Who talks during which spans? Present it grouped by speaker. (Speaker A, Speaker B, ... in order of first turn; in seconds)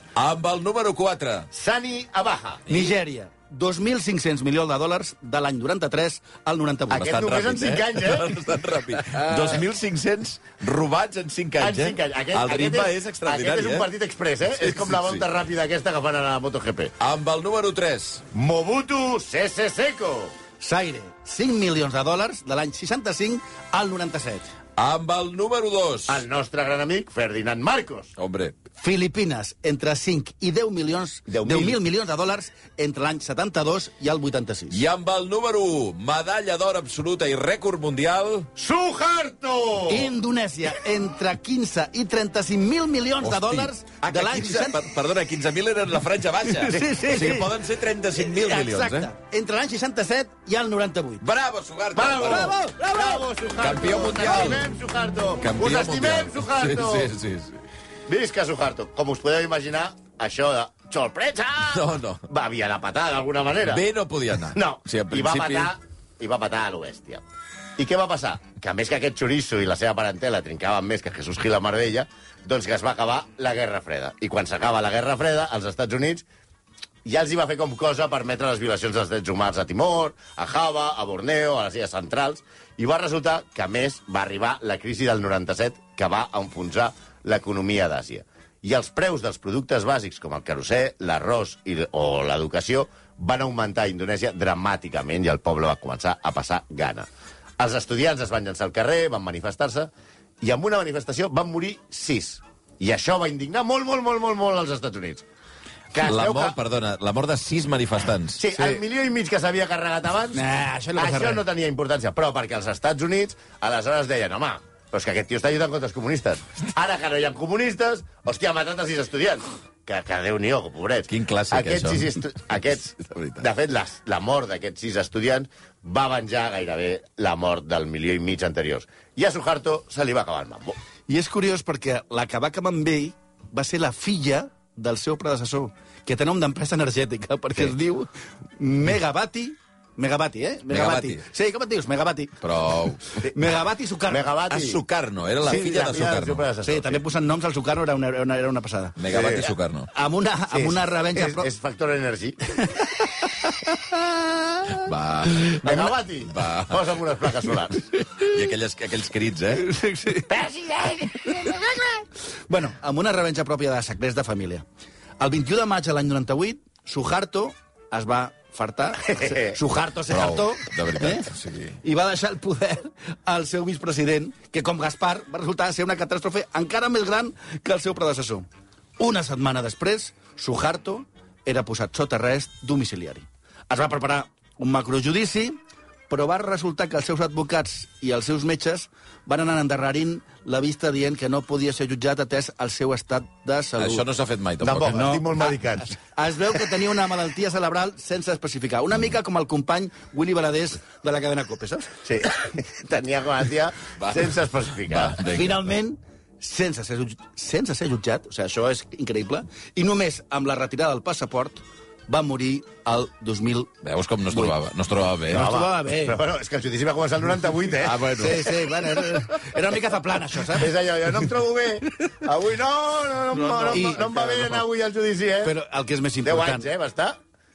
Speaker A: 0.1-1.5, 7.0-13.9, 14.6-15.2, 17.0-18.2, 24.8-26.2, 28.2-28.5, 34.7-38.5, 43.2-49.1, 51.2-54.6, 55.4-57.5, 61.7-62.2, 63.7-65.7, 106.0-108.4, 121.1-123.4, 140.7-141.2, 142.4-143.0, 144.5-146.4, 149.0-149.9, 154.7-156.8, 158.2-159.7, 170.1-171.8, 193.8-195.0, 204.0-204.3, 204.9-205.7, 213.8-215.6, 217.8-218.7, 223.6-223.8
Speaker B: 1.5-2.9, 6.9-8.4, 9.1-9.6, 11.6-16.9, 18.3-20.3, 26.1-28.1, 31.3-31.8, 38.5-40.1, 51.9-57.1, 58.1-63.8, 64.5-67.2, 67.8-76.2, 77.0-97.1, 97.6-105.2, 105.9-106.6, 108.3-110.4, 110.9-130.8, 144.1-144.8, 145.4-147.0, 149.1-149.5, 150.5-152.4, 155.6-157.8, 160.2-161.7, 169.1-169.6, 194.6-195.9, 202.0-205.2, 215.3-218.1, 220.5-225.6, 226.2-227.2
Speaker C: 2.7-7.2, 20.6-24.5, 28.8-34.8, 39.9-44.8, 46.4-47.5, 48.1-51.2, 52.2-52.8, 110.3-111.4, 131.1-142.4, 143.2-144.2, 146.6-149.0, 149.9-151.5, 152.6-154.1, 159.6-160.3, 162.5-164.6, 165.2-171.3, 171.8-178.4, 179.0-194.0, 194.9-195.5, 196.1-201.9, 205.2-213.7, 215.3-216.2, 218.1-220.7, 223.6-224.6, 225.4-226.7